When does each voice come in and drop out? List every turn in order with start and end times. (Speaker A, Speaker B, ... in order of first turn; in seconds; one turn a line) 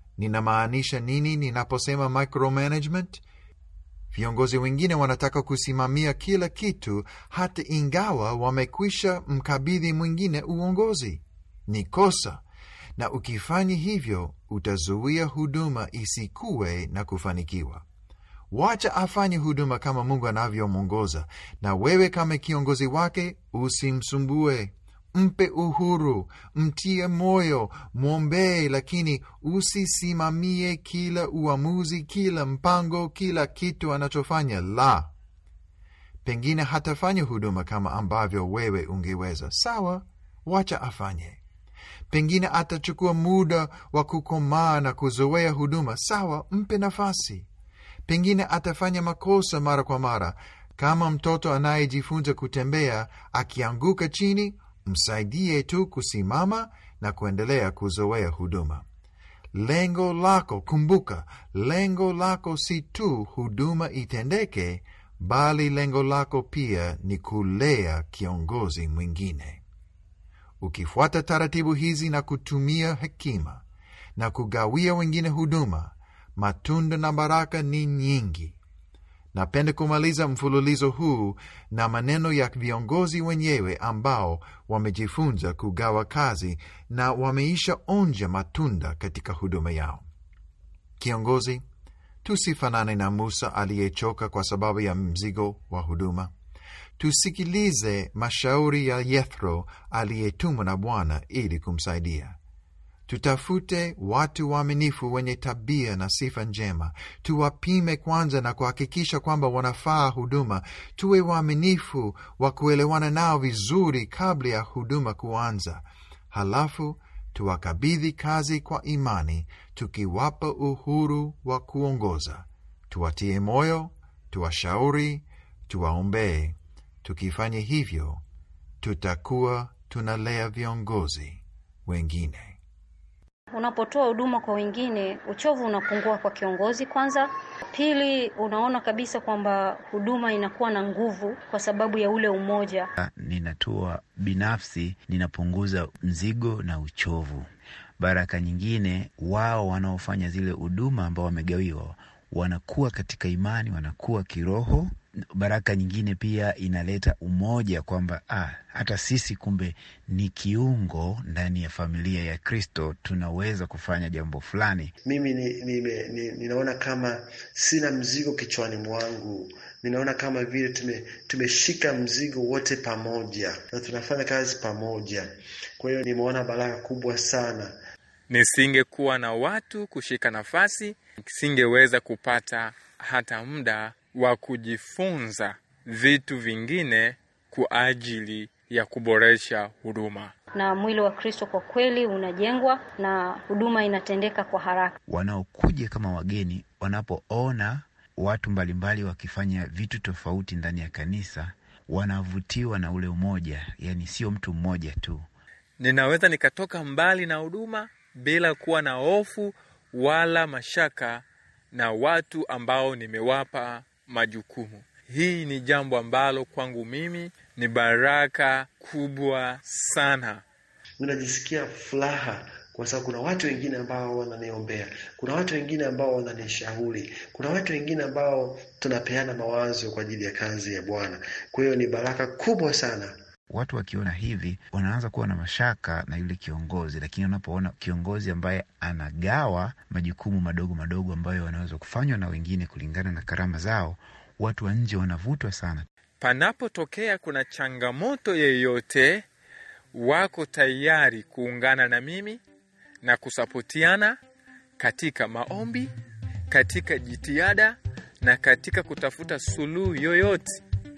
Speaker A: 0.2-3.2
Speaker A: 4.1-12.4
Speaker A: 13.0-17.9
Speaker A: 18.5-35.1
Speaker A: 36.2-41.4
Speaker A: 42.1-47.5
Speaker A: 48.1-58.9
Speaker A: 59.5-69.6
Speaker A: 70.6-73.6
Speaker A: 74.2-78.6
Speaker A: 79.3-90.0
Speaker A: 91.0-91.6
Speaker A: 92.2-96.3
Speaker A: 97.0-102.4
Speaker A: 103.1-128.2
Speaker A: 128.8-132.6
Speaker B: 133.5-142.9
Speaker C: 143.0-147.5
Speaker C: 148.0-164.9
Speaker D: 165.1-177.8
Speaker E: 178.3-190.3
Speaker B: 190.5-195.0
Speaker C: 195.1-205.2
Speaker E: 205.8-220.4
Speaker D: 221.0-233.1
Speaker C: 233.5-245.9
Speaker E: 246.2-249.2
Speaker E: 249.9-252.4
Speaker E: 253.0-254.2
Speaker E: 254.8-255.9
Speaker E: 256.5-260.6